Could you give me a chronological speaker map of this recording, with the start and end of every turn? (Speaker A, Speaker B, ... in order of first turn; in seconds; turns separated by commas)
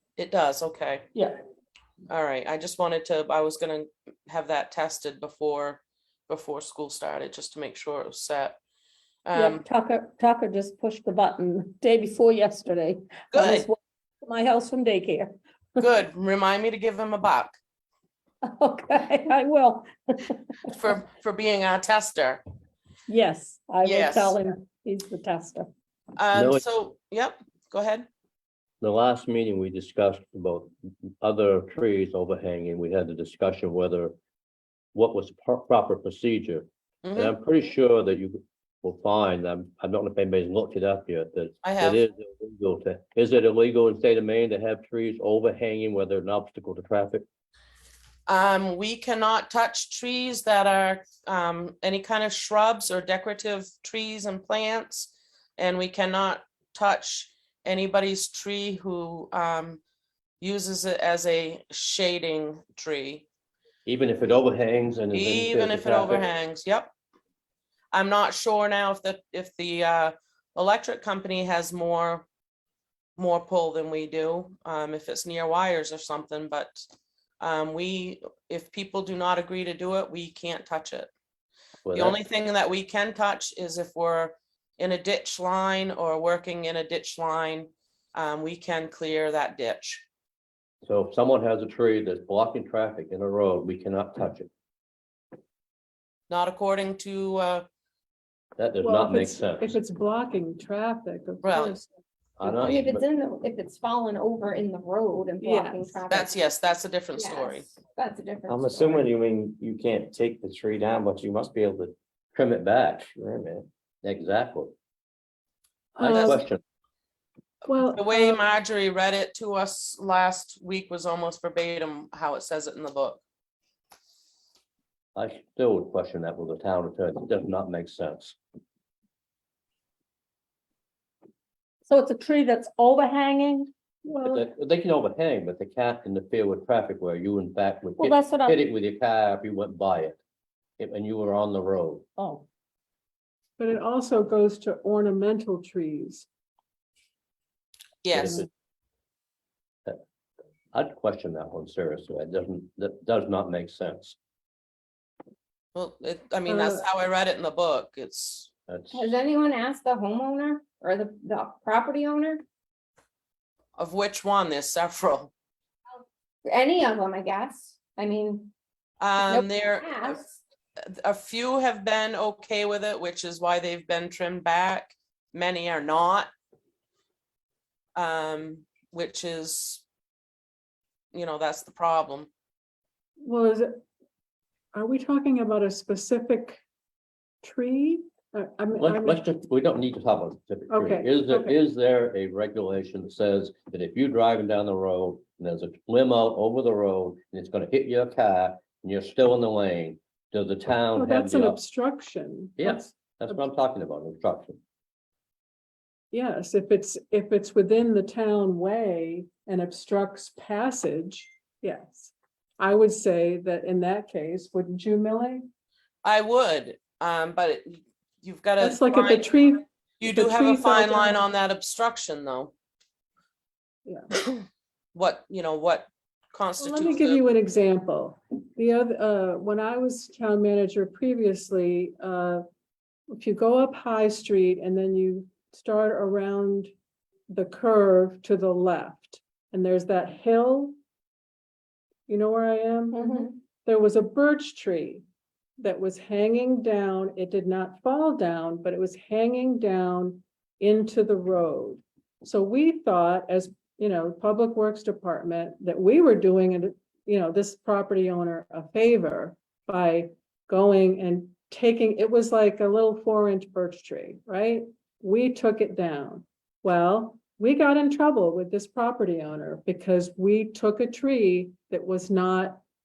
Speaker A: 0.2-1.1, Speaker A: 2.1-8.6, Speaker A: 9.2-9.6, Speaker B: 9.3-15.8, Speaker A: 13.3-13.7, Speaker A: 15.8-17.6, Speaker B: 18.5-20.7, Speaker A: 20.7-22.4, Speaker B: 23.1-25.7, Speaker A: 23.8-24.4, Speaker A: 26.2-28.1, Speaker C: 26.3-26.6, Speaker C: 28.8-34.1, Speaker C: 34.9-47.2, Speaker A: 37.0-37.3, Speaker A: 41.6-42.0, Speaker A: 48.3-59.8, Speaker A: 60.4-63.2, Speaker C: 63.9-66.2, Speaker A: 65.1-66.9, Speaker A: 67.9-72.2, Speaker A: 73.2-76.8, Speaker A: 77.4-81.1, Speaker C: 81.8-82.2, Speaker A: 81.9-90.0, Speaker C: 90.8-94.5, Speaker A: 96.3-97.7, Speaker C: 98.6-99.8, Speaker D: 98.8-101.9, Speaker A: 101.4-101.8, Speaker C: 102.4-103.0, Speaker E: 102.4-106.3, Speaker D: 105.4-105.7, Speaker A: 106.1-107.7, Speaker E: 107.2-109.1, Speaker F: 108.5-111.9, Speaker C: 112.3-113.1, Speaker F: 113.1-113.7, Speaker C: 114.0-114.7, Speaker D: 116.0-116.4, Speaker A: 116.0-116.4, Speaker C: 116.1-116.6, Speaker D: 117.7-118.4, Speaker A: 117.7-123.2, Speaker C: 125.2-128.3, Speaker B: 131.9-133.7, Speaker D: 134.0-134.4, Speaker C: 134.2-140.2, Speaker B: 138.0-138.6, Speaker C: 140.8-142.0, Speaker B: 142.2-142.4, Speaker D: 143.6-146.2, Speaker A: 148.0-148.4, Speaker C: 148.1-148.4, Speaker C: 150.7-154.2, Speaker A: 155.7-158.5, Speaker D: 156.5-156.8, Speaker C: 158.7-159.1, Speaker E: 158.9-162.4, Speaker A: 163.8-165.3, Speaker E: 166.4-168.5, Speaker A: 169.0-170.2, Speaker E: 169.2-170.3, Speaker A: 170.9-176.3, Speaker A: 177.9-179.8, Speaker A: 181.1-182.3, Speaker D: 183.2-183.8, Speaker D: 184.7-186.6, Speaker D: 187.4-189.2, Speaker C: 188.8-201.6, Speaker D: 190.7-191.6, Speaker D: 200.9-203.4, Speaker C: 202.6-204.6, Speaker D: 206.1-215.4, Speaker A: 216.0-219.3, Speaker D: 218.6-221.2, Speaker A: 220.0-222.5, Speaker D: 223.8-224.1, Speaker A: 224.9-227.2, Speaker D: 226.6-232.4, Speaker D: 233.1-236.7, Speaker D: 237.3-240.8, Speaker D: 242.1-245.0, Speaker E: 242.9-243.3, Speaker D: 245.6-272.6